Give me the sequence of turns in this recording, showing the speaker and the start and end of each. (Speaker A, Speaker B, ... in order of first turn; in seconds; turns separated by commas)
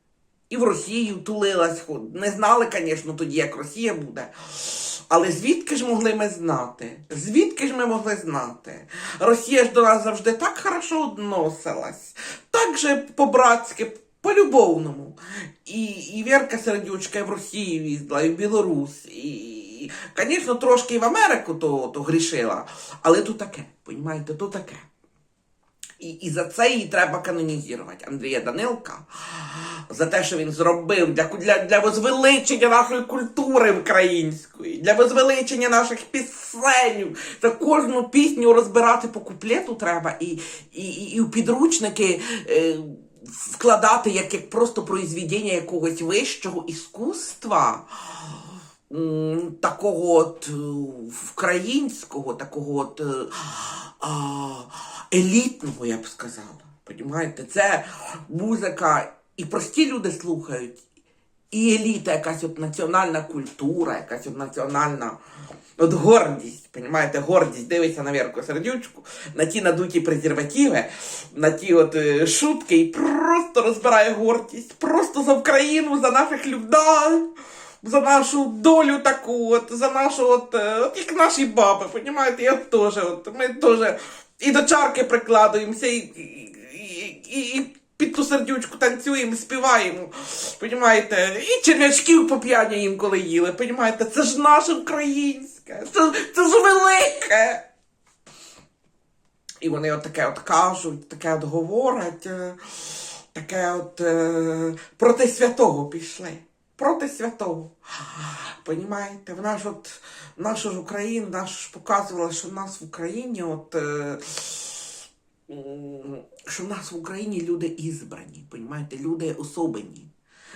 Speaker A: 0.5-24.8, Speaker A: 26.0-60.8, Speaker A: 61.5-65.2, Speaker A: 65.8-77.2, Speaker A: 77.8-97.6, Speaker A: 99.6-115.0, Speaker A: 115.5-120.1